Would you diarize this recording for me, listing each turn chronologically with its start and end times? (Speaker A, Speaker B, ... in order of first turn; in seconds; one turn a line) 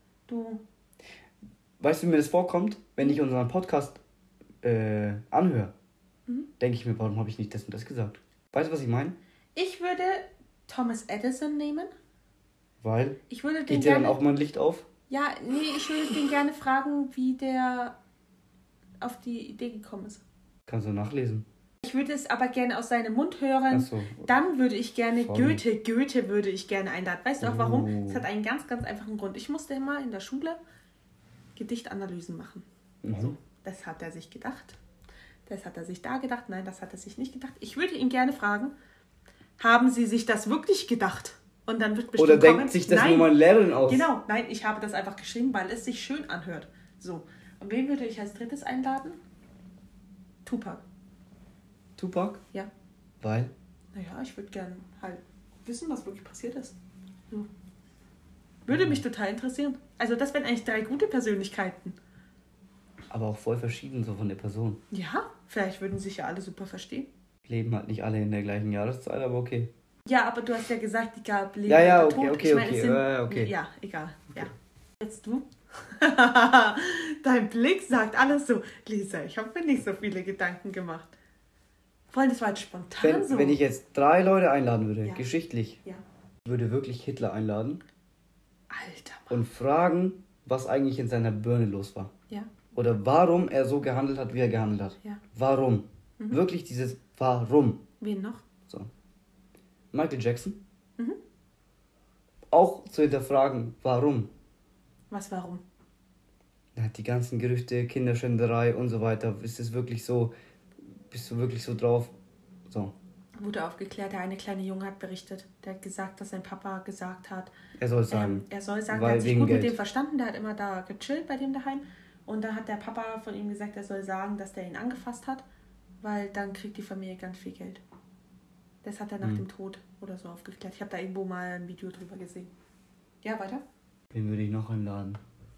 Speaker A: 0.3-0.6
Speaker B: 1.8-4.0
Speaker B: 4.6-5.7
Speaker B: 6.6-9.2
Speaker A: 9.6-11.9
Speaker B: 12.8-14.9
Speaker A: 13.3-14.2
Speaker A: 15.1-17.9
Speaker A: 19.0-20.2
Speaker B: 20.7-21.5
Speaker A: 21.8-30.6
Speaker B: 23.7-24.3
Speaker B: 25.2-25.6
Speaker B: 27.4-28.3
Speaker A: 31.6-34.8
Speaker B: 33.0-33.4
Speaker A: 35.5-38.7
Speaker A: 39.6-43.3
Speaker B: 42.2-44.1
Speaker A: 43.9-49.2
Speaker A: 50.5-50.8
Speaker B: 52.0-52.4
Speaker B: 53.2-53.5
Speaker A: 53.9-56.8
Speaker A: 58.7-62.0
Speaker B: 58.7-59.0
Speaker B: 63.1-64.8
Speaker A: 64.9-67.1
Speaker B: 67.5-69.7
Speaker A: 70.1-81.2
Speaker B: 71.7-73.5
Speaker A: 82.1-83.6
Speaker B: 83.0-85.8
Speaker B: 86.5-87.8
Speaker A: 88.7-89.4
Speaker B: 89.3-92.1
Speaker B: 92.7-97.8
Speaker A: 98.0-98.4
Speaker B: 99.9-100.6
Speaker B: 102.5-104.3
Speaker A: 105.1-105.6
Speaker B: 106.8-110.3
Speaker B: 111.1-112.1
Speaker B: 112.7-113.0
Speaker A: 113.4-117.5
Speaker B: 117.8-119.8
Speaker A: 118.1-125.5
Speaker A: 126.0-127.8
Speaker A: 128.8-132.5
Speaker A: 133.2-133.6
Speaker B: 134.1-135.2